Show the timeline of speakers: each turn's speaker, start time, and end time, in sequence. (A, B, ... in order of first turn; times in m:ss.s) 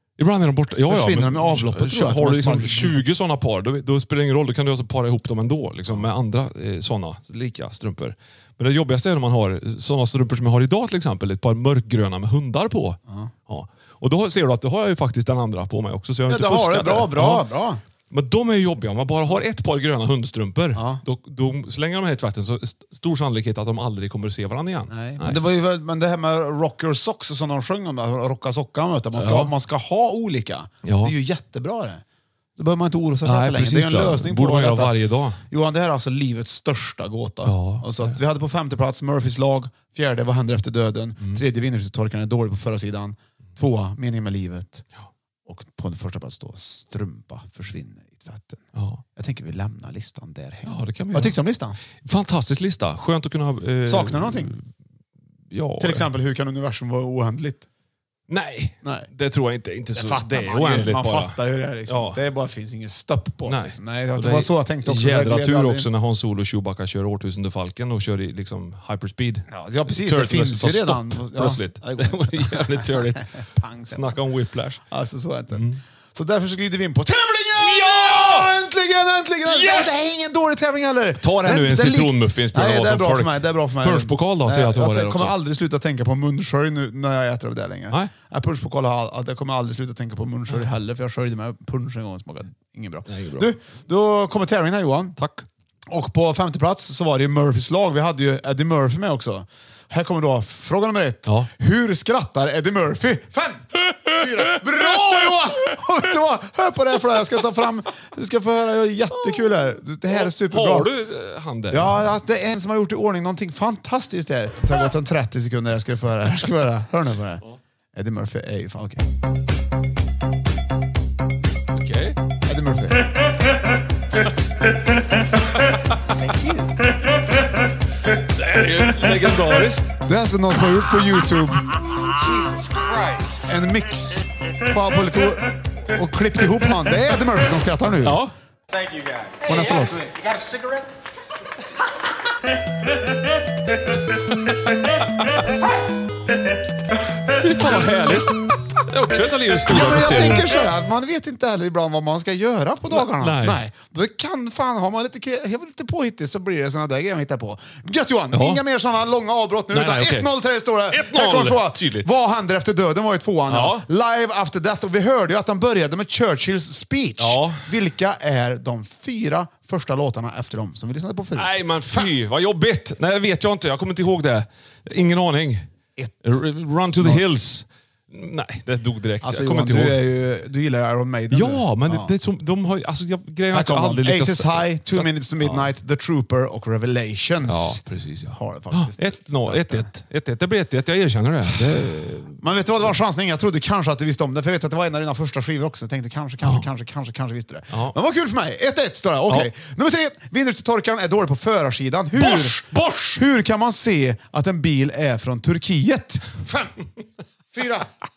0:00.2-0:17.4 A
0:00.9-0:03.1 B
0:16.3-0:17.8 B
0:18.1-0:25.4 A
0:20.7-0:21.0 B
0:24.9-0:32.0 B
0:29.1-0:29.5 A
0:30.8-0:31.1 A
0:32.6-0:35.0 B
0:33.2-0:35.4 A
0:35.5-0:44.8 B
0:37.4-0:38.2 A
0:45.4-0:48.6 B
0:48.7-0:49.0 A
0:49.2-0:51.8 B
0:50.6-0:51.4 A
0:52.0-0:54.6 A
0:53.8-0:54.5 B
0:55.5-0:56.1 A
0:55.8-0:57.7 B
0:58.3-1:02.2 A
0:59.9-1:05.9 B
1:03.4-1:14.8 A
1:09.5-1:14.0 B
1:14.9-1:35.2 B
1:15.5-1:15.8 A
1:17.6-1:18.5 A
1:19.4-1:20.1 A
1:21.2-1:25.3 A
1:33.1-1:33.5 A
1:35.2-1:35.5 A
1:35.9-1:50.9 B
1:43.9-1:45.3 A
1:49.2-1:52.1 A
1:51.7-1:57.4 B
1:57.9-1:59.0 B
2:01.7-2:02.2 A
2:02.4-2:03.1 B
2:08.4-2:09.9 A
2:10.0-2:11.7 B
2:12.2-2:13.3 C
2:13.4-2:18.2 B
2:18.0-2:18.3 A
2:18.9-2:19.3 C
2:19.4-2:20.1 B
2:20.0-2:20.8 C
2:24.8-2:25.4 A
2:27.4-2:30.5 A
2:29.6-2:52.1 B
2:32.9-2:33.6 A
2:38.3-2:38.6 A
2:39.7-2:40.3 A
2:40.9-2:42.1 A
2:43.5-2:43.8 A
2:47.2-2:47.7 A
2:51.3-2:55.7 A
2:56.0-2:56.2 B
2:56.2-3:00.0 A
2:57.0-2:57.2 B
2:59.2-3:02.1 B
3:01.3-3:05.7 A
3:03.5-3:09.9 B
3:07.4-3:12.4 A
3:11.6-3:22.6 B
3:22.2-3:23.2 A
3:23.1-3:26.7 B
3:27.5-3:27.9 B